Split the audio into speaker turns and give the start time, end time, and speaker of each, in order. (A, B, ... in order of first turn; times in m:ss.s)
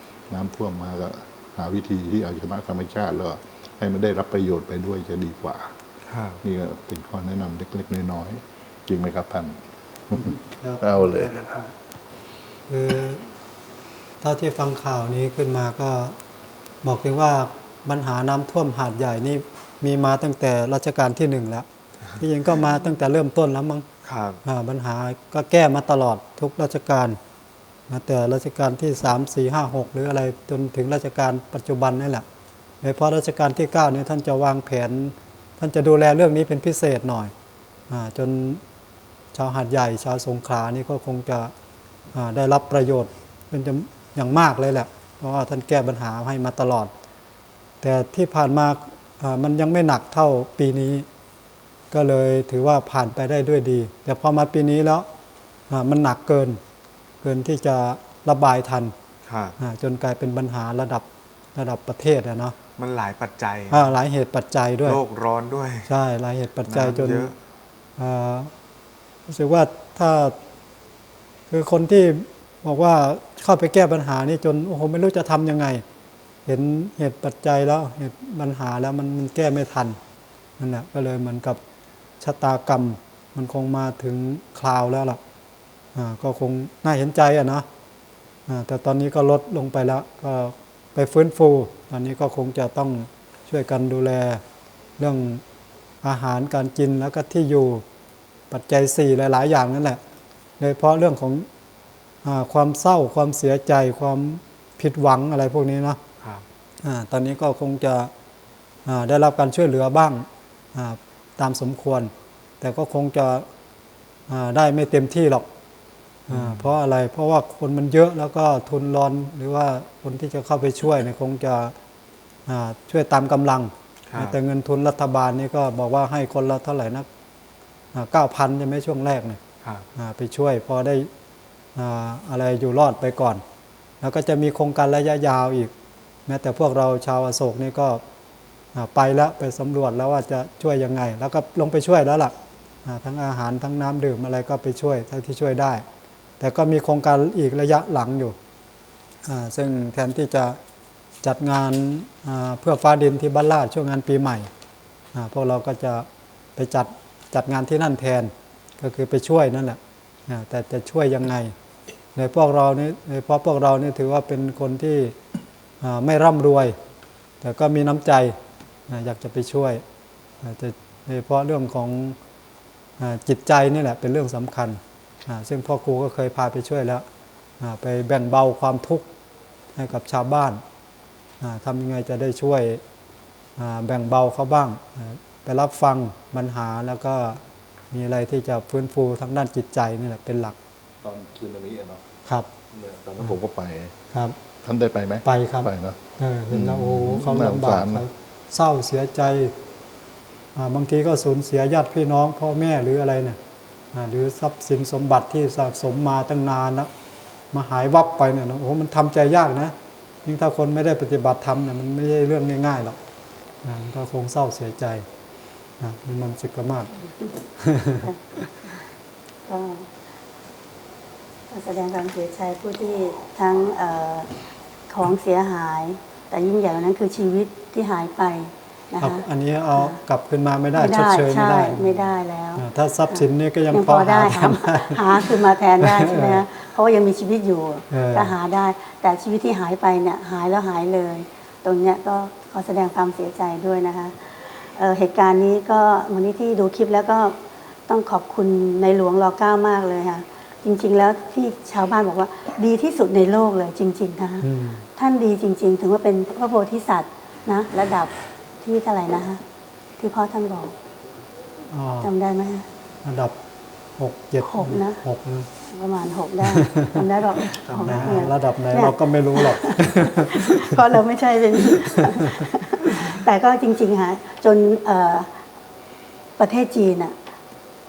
0:00.3-0:05.7 A
0:06.1-0:06.4 B
0:06.4-0:09.6 A
0:10.1-0:11.4 A
0:10.1-0:11.7 C
0:12.7-0:13.3 C
0:14.2-0:16.2 C
0:16.8-0:21.6 C
0:22.2-0:23.8 C
0:24.0-0:24.4 B
0:24.4-0:27.2 C
0:27.9-0:32.2 C
0:32.8-0:37.3 C
0:37.9-0:38.6 C
0:39.3-0:41.5 C
0:42.1-0:46.9 C
0:47.8-0:51.0 C
0:51.9-0:55.1 C
0:55.7-0:56.6 C
0:57.2-0:58.9 C
0:59.2-0:59.5 B
0:59.6-1:02.6 C
1:02.8-1:03.9 B
1:03.7-1:05.0 C
1:04.8-1:05.9 B
1:05.9-1:07.3 C
1:06.6-1:07.4 B
1:08.0-1:08.5 C
1:09.3-1:10.4 C
1:11.5-1:15.8 C
1:16.4-1:20.0 C
1:20.6-1:21.6 C
1:22.2-1:25.2 C
1:25.9-1:27.6 C
1:28.5-1:34.4 C
1:35.0-1:35.4 C
1:36.0-1:37.8 C
1:38.5-1:40.0 C
1:40.6-1:41.5 C
1:42.2-1:46.0 C
1:46.8-1:48.1 C
1:48.8-1:53.4 C
1:54.3-1:55.5 C
1:56.3-2:01.7 C
1:56.3-1:56.7 B
2:02.5-2:07.1 C
2:04.1-2:04.4 B
2:07.9-2:09.4 C
2:09.9-2:11.1 C
2:11.7-2:13.4 C
2:14.0-2:15.7 C
2:16.2-2:18.0 C
2:18.7-2:22.3 C
2:22.8-2:25.8 C
2:26.4-2:28.4 C
2:29.2-2:30.6 C
2:31.2-2:34.5 C
2:35.1-2:41.5 C
2:42.1-2:45.2 C
2:45.8-2:46.8 C
2:47.4-2:48.3 C
2:48.9-2:49.8 C
2:50.4-2:52.2 C
2:53.0-2:57.0 C
2:57.6-2:59.1 C
2:59.7-3:00.6 C
3:01.4-3:02.8 C
3:03.6-3:07.4 C
3:07.9-3:10.6 C
3:11.0-3:12.0 A
3:12.7-3:13.9 A
3:14.6-3:16.0 A
3:15.2-3:19.5 C
3:16.5-3:18.0 A
3:20.5-3:23.4 C
3:23.9-3:26.9 C
3:27.5-3:33.0 C
3:33.6-3:35.0 C
3:35.8-3:36.9 C
3:37.6-3:38.4 C
3:39.5-3:39.9 D
3:41.5-3:44.3 D
3:44.9-3:50.0 D
3:49.0-3:56.4 C
3:50.7-4:07.4 D
3:57.9-3:58.3 C
4:07.9-4:19.4 D
4:14.4-4:14.8 C
4:20.0-4:20.7 D
4:21.7-4:22.1 C
4:22.0-4:22.6 D
4:23.0-4:23.3 C
4:24.0-4:25.5 C
4:24.4-4:25.0 D
4:25.7-4:35.3 D
4:26.4-4:31.0 C
4:31.6-4:32.3 C
4:36.4-4:37.1 D